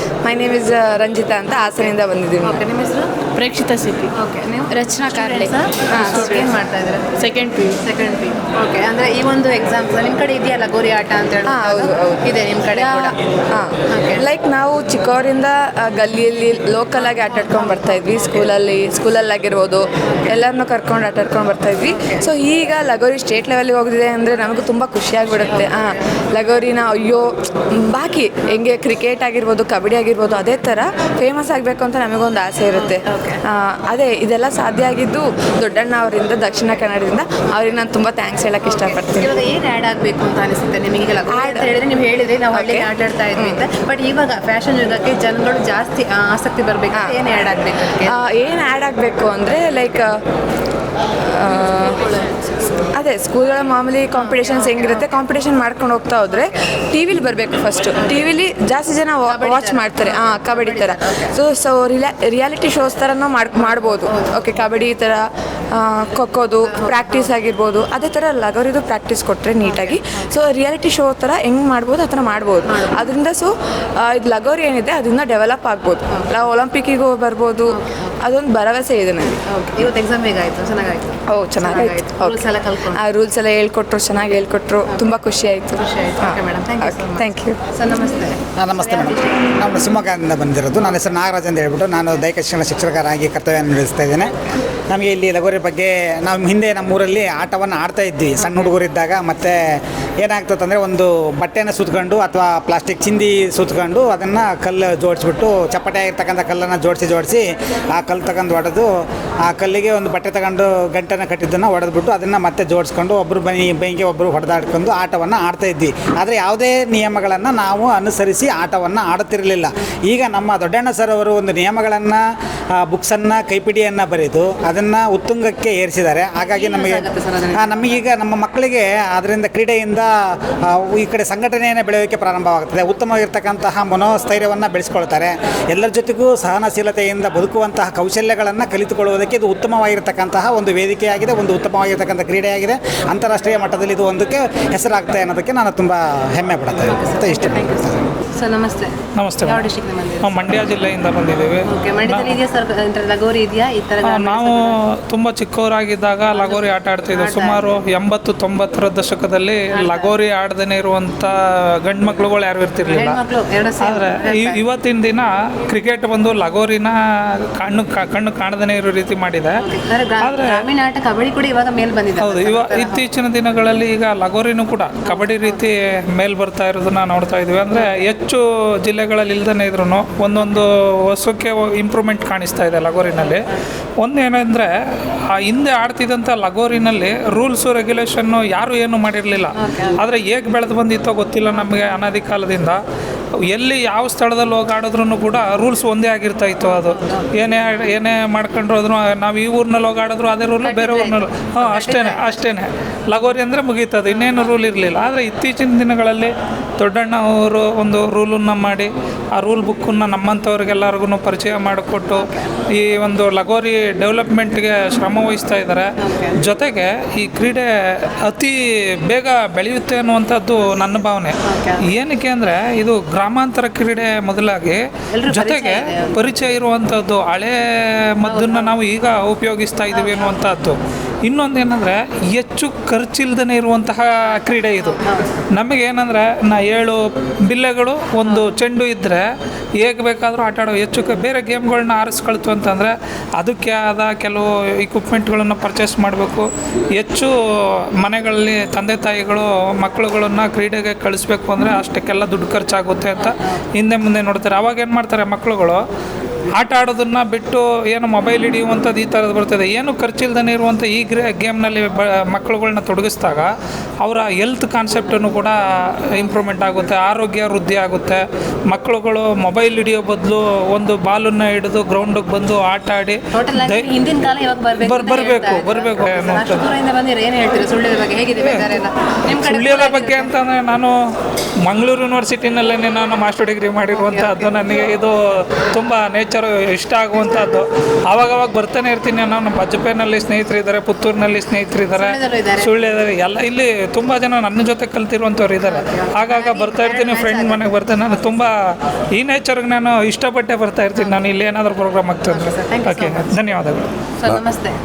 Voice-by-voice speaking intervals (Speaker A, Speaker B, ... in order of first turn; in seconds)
Speaker A: 0.2-2.6, 5.9-6.2, 11.5-39.3, 41.3-41.7, 42.5-43.6, 48.0-50.1, 51.3-52.1, 53.0-79.4, 81.3-87.6
Speaker B: 1.8-3.1, 4.1-7.1, 7.8-13.2, 13.9-14.3, 32.7-33.4, 38.6-48.2, 54.2-55.1, 58.0-58.3, 59.3-61.3, 63.6-64.6, 66.6-67.3, 69.6-70.0, 72.7-73.0, 76.1-76.4, 77.7-78.0, 79.3-83.0, 84.9-85.1, 85.8-89.4, 126.5-128.0, 146.9-150.6, 151.7-154.8, 156.3-157.8, 159.7-160.2, 162.9-164.6, 169.6-173.1, 175.1-175.6, 183.2-183.6, 189.6-190.0, 191.5-192.0, 196.8-197.4, 200.6-202.5, 204.1-204.6, 212.1-212.5, 216.0-216.4, 221.5-221.9, 225.1-226.3, 228.3-228.8, 229.9-230.3, 234.8-235.3, 238.2-238.6, 273.3-280.3, 283.9-284.6, 291.9-292.7, 295.6-298.5, 302.3-303.4, 304.2-304.8
Speaker C: 3.4-4.1, 4.7-5.5, 7.2-7.8
Speaker D: 88.6-94.3, 94.9-99.6, 100.2-107.4, 108.0-108.9, 109.5-122.2, 122.8-127.1, 127.6-130.1, 130.7-148.1
Speaker E: 149.2-149.6, 150.2-152.4, 154.1-161.3, 161.9-163.2, 163.8-166.9, 167.6-169.6, 170.2-170.6, 172.2-183.5, 184.0-184.7, 185.4-192.8, 193.5-215.9, 216.4-218.6, 219.1-221.4, 221.9-227.6, 228.2-235.0, 235.6-239.2, 239.8-247.3, 248.0-255.8, 256.6-263.5, 264.0-265.6, 266.2-273.9, 274.8-276.6, 279.3-280.9, 281.6-285.1, 285.7-298.5, 299.2-303.9